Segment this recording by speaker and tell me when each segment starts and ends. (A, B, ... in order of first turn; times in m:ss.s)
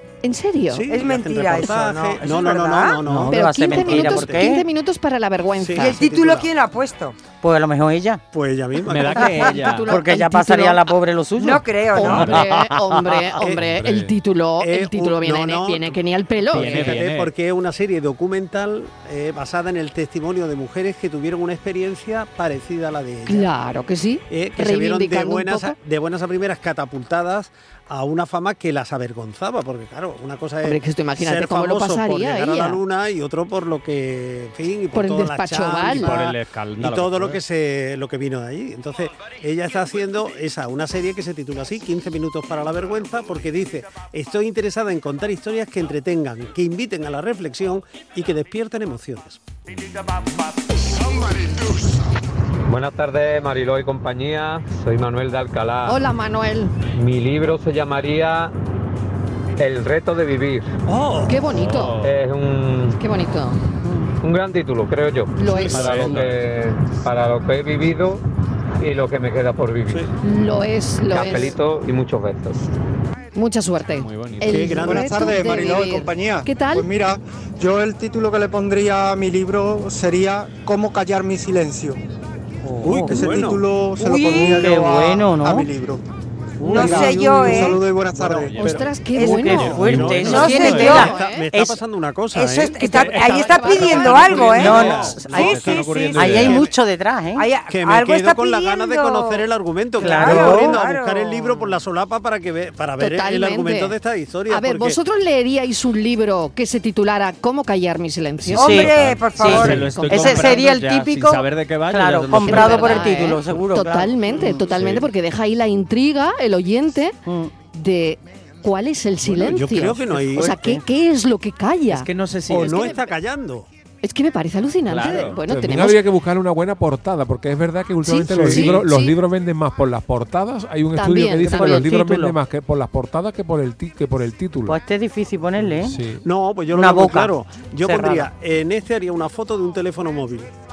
0:00.2-0:00.9 A
0:00.7-0:04.5 B
0:00.9-0:03.0 C
0:03.1-0:04.6 D
0:03.3-0:06.0 A
0:05.6-0:06.5 B
0:05.8-0:07.2 C
0:07.4-0:08.2 D
0:08.3-0:09.5 B
0:08.9-0:09.9 E
0:09.2-0:10.8 A
0:09.9-0:13.2 D
0:11.4-0:12.4 C
0:11.9-0:17.0 A
0:13.4-0:13.6 B
0:13.7-0:14.1 F
0:14.6-0:16.0 B
0:16.5-0:23.5 B
0:16.5-0:17.3 E
0:23.3-0:25.8 A
0:24.3-0:49.4 B
0:30.6-0:32.8 A
0:34.9-0:36.1 A
0:35.8-0:37.4 E
0:52.7-0:56.0 G
0:55.8-0:56.7 A
0:57.0-0:58.5 G
0:59.6-1:00.7 G
1:00.9-1:01.3 B
1:01.3-1:02.0 A
1:01.5-1:02.1 E
1:02.0-1:03.0 G
1:03.0-1:03.6 A
1:04.2-1:08.2 G
1:05.3-1:05.9 A
1:05.7-1:06.4 E
1:05.8-1:06.2 B
1:08.8-1:10.1 G
1:10.2-1:11.5 A
1:11.1-1:12.6 G
1:13.4-1:16.8 A
1:14.0-1:14.9 E
1:14.4-1:15.2 B
1:14.8-1:22.0 H
1:22.8-1:23.3 D
1:22.8-1:23.6 B
1:22.9-1:26.0 H
1:24.0-1:25.7 D
1:26.6-1:28.9 B
1:26.6-1:27.8 C
1:26.7-1:27.6 E
1:26.8-1:28.5 H
1:28.1-1:28.9 E
1:28.6-1:31.5 A
1:29.1-1:29.7 C
1:29.2-1:31.8 D
1:29.5-1:31.0 E
1:29.6-1:32.9 B
1:30.2-1:31.1 C
1:32.3-1:36.6 C
1:32.8-1:34.6 A
1:32.9-1:36.6 E
1:33.6-1:36.6 B
1:34.3-1:37.5 D
1:37.4-1:39.4 C
1:37.7-1:45.0 B
1:40.0-1:41.6 C
1:40.0-1:40.8 D
1:43.0-1:43.9 A
1:44.5-1:48.9 A
1:48.4-1:53.2 E
1:48.6-1:49.8 C
1:48.6-1:54.6 D
1:49.6-1:50.6 A
1:52.4-1:57.2 A
1:54.7-1:55.0 E
1:57.2-1:57.5 D
1:57.7-2:02.1 A
1:59.2-2:00.6 B
2:01.9-2:02.9 E
2:02.5-2:03.7 B
2:02.6-2:03.0 A
2:04.0-2:06.0 A
2:04.8-2:05.4 E
2:05.5-2:14.8 F
2:08.0-2:09.1 A
2:08.3-2:08.8 B
2:11.0-2:11.8 A
2:11.5-2:12.4 D
2:14.7-2:16.0 D
2:15.8-2:16.2 F
2:16.2-2:20.5 B
2:16.7-2:18.3 D